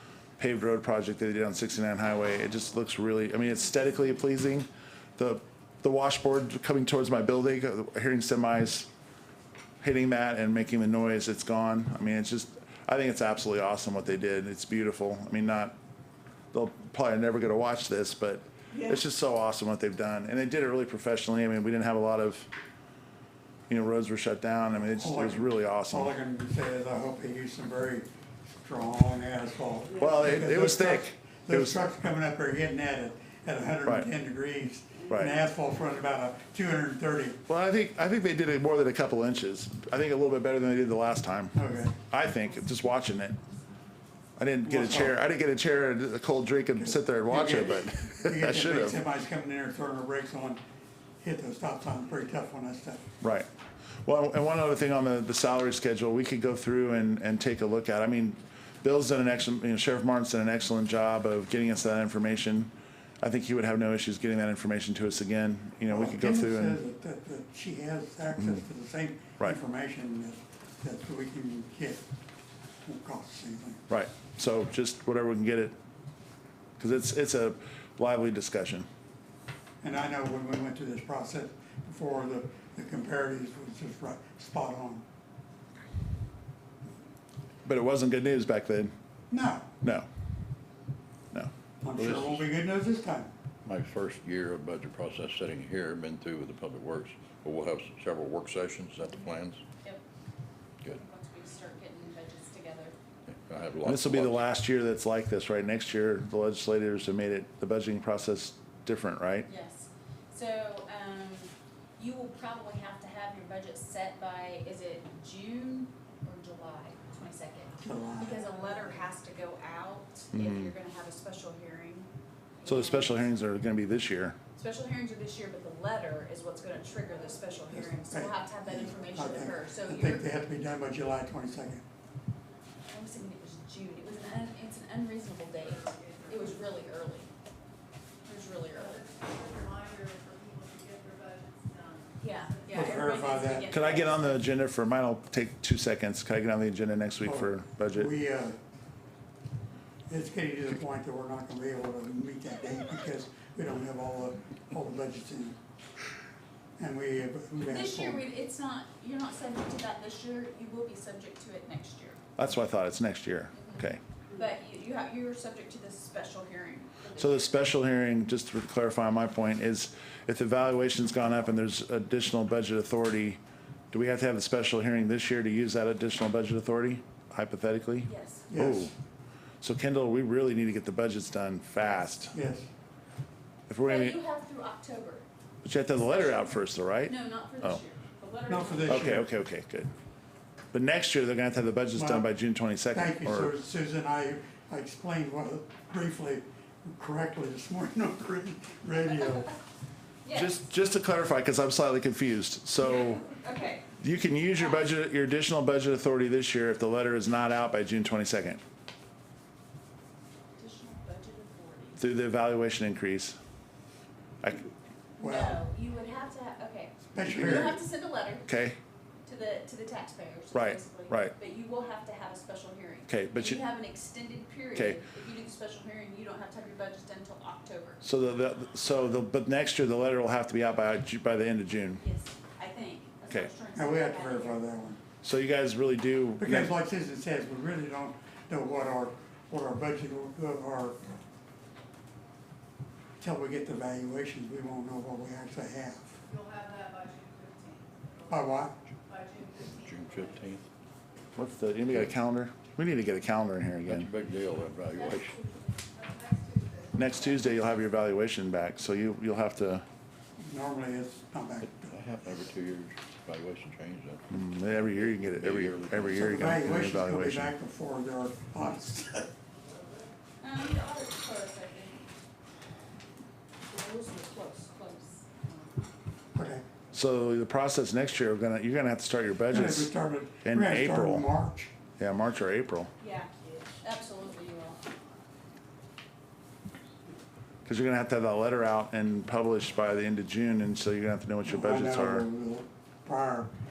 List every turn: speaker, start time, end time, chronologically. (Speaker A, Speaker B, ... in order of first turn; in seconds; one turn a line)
Speaker A: 0.4-8.9
Speaker A: 9.8-15.7
Speaker A: 16.5-22.5
Speaker A: 23.7-26.1
Speaker B: 25.0-37.4
Speaker A: 29.9-31.8
Speaker A: 35.1-35.3
Speaker A: 37.5-43.4
Speaker B: 41.5-42.0
Speaker A: 44.4-49.0
Speaker B: 44.6-45.1
Speaker B: 46.8-50.6
Speaker B: 51.2-53.1
Speaker A: 53.2-53.5
Speaker A: 54.0-66.8
Speaker B: 65.9-72.0
Speaker B: 72.8-73.8
Speaker A: 73.9-75.7
Speaker A: 76.8-78.8
Speaker B: 79.8-85.0
Speaker A: 87.7-88.9
Speaker B: 89.3-89.7
Speaker B: 91.8-93.3
Speaker C: 92.0-92.4
Speaker C: 93.6-99.6
Speaker D: 100.9-102.9
Speaker C: 103.2-104.4
Speaker A: 103.8-109.5
Speaker D: 109.5-123.3
Speaker B: 117.8-118.8
Speaker A: 120.3-120.7
Speaker A: 122.6-124.3
Speaker D: 124.5-130.3
Speaker B: 127.7-131.8
Speaker D: 132.9-137.3
Speaker E: 135.6-136.7
Speaker D: 138.2-139.0
Speaker E: 138.7-143.3
Speaker D: 142.2-144.5
Speaker B: 142.7-143.7
Speaker A: 143.7-148.1
Speaker B: 147.2-148.6
Speaker B: 150.1-155.6
Speaker B: 156.8-158.2
Speaker D: 157.6-162.2
Speaker A: 162.4-164.0
Speaker D: 163.5-167.6
Speaker A: 167.2-173.4
Speaker A: 173.9-178.9
Speaker D: 178.0-178.5
Speaker B: 178.5-178.9
Speaker A: 179.6-182.3
Speaker B: 182.3-182.7
Speaker A: 183.7-184.2
Speaker D: 183.8-185.2
Speaker A: 185.6-187.8
Speaker D: 186.0-189.1
Speaker B: 188.5-189.3
Speaker A: 188.8-189.9
Speaker A: 190.7-193.5
Speaker B: 191.9-192.3
Speaker B: 192.9-199.5
Speaker D: 200.2-200.7
Speaker A: 200.3-203.2
Speaker D: 202.8-203.9
Speaker A: 204.0-208.6
Speaker D: 204.6-204.9
Speaker D: 210.6-212.0
Speaker A: 212.0-213.3
Speaker D: 215.2-218.4
Speaker B: 215.2-215.6
Speaker B: 217.1-217.8
Speaker A: 217.3-217.7
Speaker A: 218.4-218.8
Speaker D: 219.2-228.0
Speaker A: 220.5-221.3
Speaker A: 223.1-223.6
Speaker A: 224.8-225.0
Speaker A: 228.0-232.0
Speaker D: 232.0-234.6
Speaker B: 233.8-235.0
Speaker A: 235.2-236.7
Speaker B: 236.4-241.0
Speaker B: 243.2-246.2
Speaker E: 246.2-250.6
Speaker B: 248.3-248.8
Speaker C: 249.6-250.6
Speaker A: 251.3-254.1
Speaker C: 253.8-255.3
Speaker D: 254.9-255.8
Speaker E: 255.8-257.6
Speaker A: 256.9-259.9
Speaker B: 260.4-261.9
Speaker C: 261.6-264.2
Speaker A: 264.3-267.5
Speaker C: 265.1-266.5
Speaker B: 266.1-269.3
Speaker D: 270.4-272.1
Speaker D: 273.7-275.7
Speaker B: 276.3-276.6
Speaker A: 276.9-281.3
Speaker B: 279.5-281.7
Speaker A: 282.0-282.9
Speaker D: 283.0-284.8
Speaker A: 287.7-292.2
Speaker B: 291.4-293.5